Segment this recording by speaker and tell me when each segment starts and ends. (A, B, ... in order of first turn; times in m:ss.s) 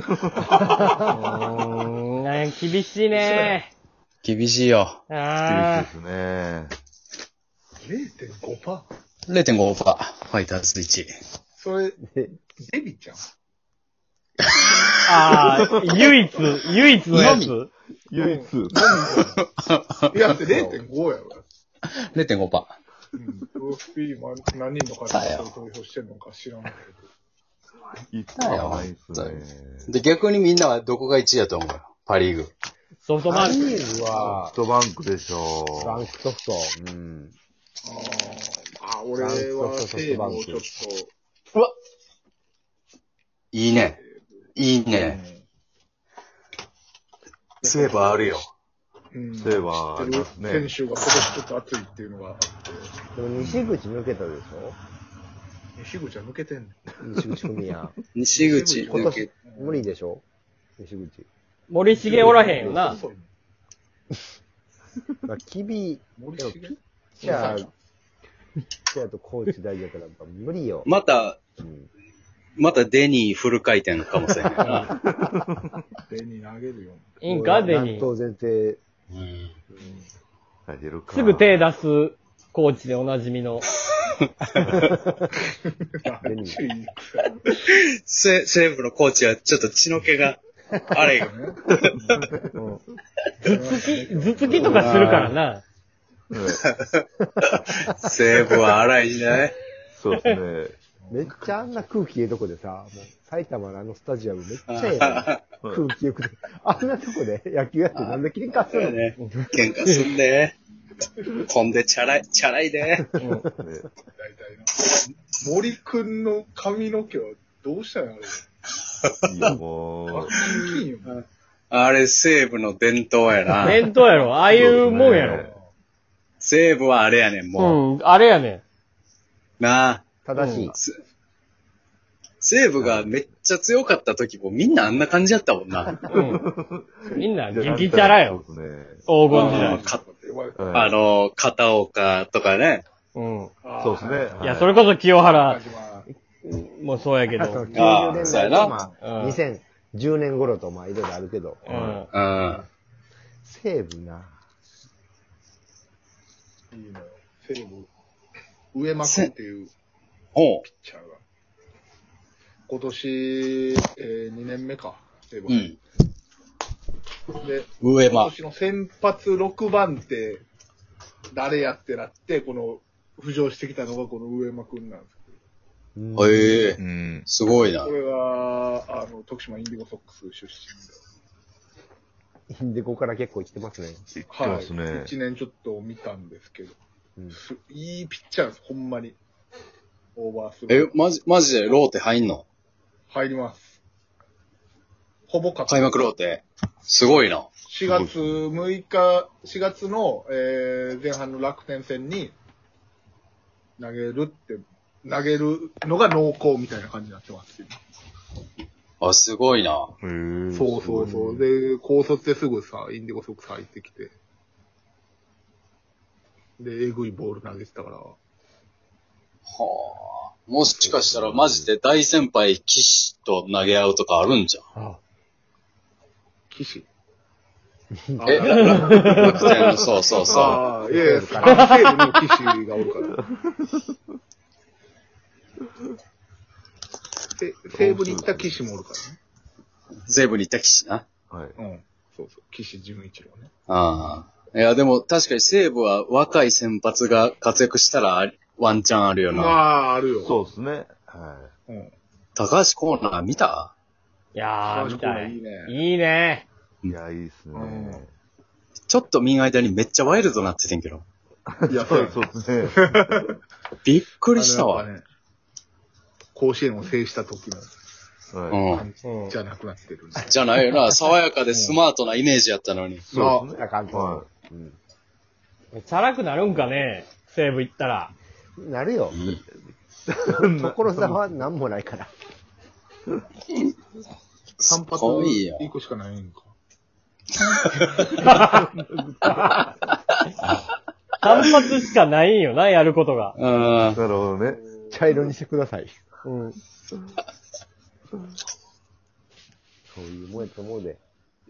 0:00.6-0:03.7 A
0:01.1-0:01.9 B
0:03.1-0:03.6 B
0:04.2-0:05.0 C
0:05.1-0:05.9 A
0:05.4-0:06.7 D
0:07.8-0:08.8 B
0:09.3-0:11.1 C
0:11.6-0:12.0 B
0:12.0-0:12.4 E
0:12.6-0:13.2 B
0:14.5-0:15.5 C
0:15.0-0:17.7 A
0:15.5-0:16.1 D
0:17.1-0:17.5 C
0:18.1-0:19.2 D
0:18.2-0:19.4 B
0:19.4-0:20.4 C
0:20.1-0:21.4 B
0:21.9-0:22.7 C
0:23.1-0:27.1 B
0:25.1-0:25.5 C
0:28.1-0:29.9 D
0:28.4-0:32.5 C
0:33.0-0:33.8 A
0:33.3-0:34.6 E
0:33.5-0:36.1 D
0:35.8-0:37.4 E
0:37.8-0:41.1 B
0:39.2-0:40.7 E
0:43.5-0:44.0 C
0:44.6-0:45.2 C
0:45.0-0:45.4 B
0:47.6-0:48.4 B
0:47.6-0:48.5 C
0:49.1-0:52.9 B
0:49.3-0:50.7 D
0:53.1-0:54.8 E
0:53.4-0:53.7 D
0:55.8-0:56.8 B
0:57.0-0:58.0 E
0:58.1-0:59.3 C
0:58.4-0:59.9 B
0:58.9-1:00.2 E
1:00.8-1:01.3 E
1:01.7-1:03.0 A
1:01.9-1:03.3 B
1:02.2-1:02.8 E
1:05.2-1:07.7 E
1:06.2-1:07.7 B
1:08.9-1:10.9 E
1:10.8-1:11.4 C
1:11.6-1:11.9 E
1:12.6-1:14.7 C
1:14.6-1:14.9 A
1:14.9-1:15.8 D
1:16.1-1:17.3 B
1:17.2-1:18.1 A
1:17.2-1:18.8 E
1:19.1-1:19.5 C
1:19.7-1:20.0 E
1:20.7-1:21.7 D
1:21.1-1:23.7 A
1:24.4-1:24.8 C
1:24.7-1:25.0 E
1:26.0-1:27.6 B
1:26.2-1:26.6 E
1:27.7-1:32.2 C
1:31.0-1:31.6 B
1:32.2-1:32.5 D
1:33.4-1:35.6 A
1:33.4-1:35.3 B
1:34.5-1:35.0 D
1:34.8-1:35.4 C
1:36.3-1:36.6 D
1:36.5-1:39.5 C
1:37.4-1:37.9 E
1:39.9-1:40.8 D
1:41.0-1:41.5 B
1:41.1-1:49.0 E
1:44.7-1:45.4 C
1:45.6-1:45.9 D
1:47.9-1:50.6 C
1:49.1-1:50.1 A
1:51.3-1:53.1 C
1:53.2-1:53.5 A
1:53.5-1:53.9 D
1:54.1-1:58.4 B
1:59.2-2:00.4 D
2:00.1-2:01.2 B
2:00.6-2:03.9 C
2:03.6-2:05.4 A
2:04.4-2:05.5 D
2:05.0-2:05.7 B
2:06.4-2:07.8 C
2:07.6-2:08.6 A
2:09.6-2:10.2 C
2:10.2-2:10.8 E
2:10.3-2:10.7 A
2:10.7-2:11.0 C
2:12.4-2:16.0 C
2:12.8-2:13.2 D
2:16.1-2:19.1 D
2:16.1-2:16.4 A
2:17.1-2:18.4 A
2:19.1-2:19.8 A
2:19.3-2:20.0 C
2:19.4-2:21.0 B
2:20.6-2:20.9 D
2:20.7-2:22.8 C
2:23.1-2:23.5 A
2:23.6-2:24.6 B
2:23.8-2:24.7 D
2:24.4-2:25.6 A
2:25.3-2:26.1 B
2:26.3-2:27.7 A
2:27.4-2:31.8 E
2:27.7-2:29.0 B
2:27.7-2:28.8 C
2:29.0-2:29.4 A
2:31.7-2:32.0 D
2:31.8-2:32.1 A
2:32.1-2:32.6 C
2:33.4-2:34.4 E
2:36.7-2:37.9 B
2:38.7-2:39.7 B
2:39.0-2:39.3 C
2:40.3-2:40.6 C
2:40.6-2:41.2 B
2:42.7-2:45.6 B
2:45.5-2:45.8 C
2:47.4-2:50.4 B
2:47.8-2:48.3 C
2:51.3-2:55.4 B
2:56.0-2:56.8 E
2:56.2-2:57.9 C
2:56.8-2:57.3 D
2:57.8-3:01.0 B
3:02.5-3:04.0 E
3:04.1-3:05.1 D
3:04.3-3:06.8 B
3:07.3-3:09.2 B
3:10.2-3:10.9 B
3:10.7-3:12.4 C
3:13.1-3:13.8 B
3:15.3-3:16.1 B
3:15.7-3:17.5 C
3:17.7-3:22.3 B
3:17.8-3:18.4 D
3:23.8-3:27.8 B
3:29.0-3:29.9 C
3:30.0-3:31.5 D
3:30.5-3:34.1 B
3:36.6-3:38.2 B
3:39.5-3:44.6 C
3:40.8-3:41.6 E
3:46.5-3:46.9 B
3:48.1-3:48.4 E
3:48.2-3:49.7 B
3:48.2-3:50.6 C
3:48.6-3:49.2 A
3:50.2-3:50.6 D
3:50.2-3:53.2 B
3:50.9-3:52.1 E
3:53.3-3:53.9 D
3:57.4-3:59.2 B
3:57.7-3:58.7 D
4:00.1-4:01.0 C
4:01.3-4:01.6 D
4:01.6-4:03.5 B
4:03.7-4:09.6 C
4:09.3-4:10.4 B
4:10.2-4:11.5 D
4:11.7-4:11.9 B
4:12.4-4:13.7 C
4:14.3-4:16.5 A
4:14.6-4:15.7 B
4:16.8-4:18.1 D
4:17.5-4:18.0 B
4:18.9-4:21.0 C
4:21.5-4:23.2 D
4:21.7-4:23.3 B
4:23.8-4:24.9 C
4:24.3-4:25.0 B
4:26.3-4:27.7 B
4:28.3-4:28.6 D
4:28.5-4:28.8 C
4:28.6-4:30.9 B
4:29.0-4:29.3 A
4:30.2-4:33.0 C
4:31.5-4:31.8 B
4:33.1-4:34.3 D
4:33.1-4:33.5 B
4:33.5-4:34.8 E
4:35.7-4:38.1 A
4:38.6-4:39.2 E
4:39.1-4:39.4 C
4:40.1-4:41.3 D
4:40.3-4:42.1 E
4:44.6-4:45.7 C
4:44.6-4:46.5 B
4:47.4-4:48.3 C
4:48.3-4:49.3 D
4:51.2-4:53.4 A
4:51.2-4:51.6 C
4:53.4-4:54.0 C
4:53.9-4:54.6 D
4:54.6-4:54.9 B
4:54.9-4:55.9 E
4:56.2-4:56.6 A
4:59.9-5:01.0 E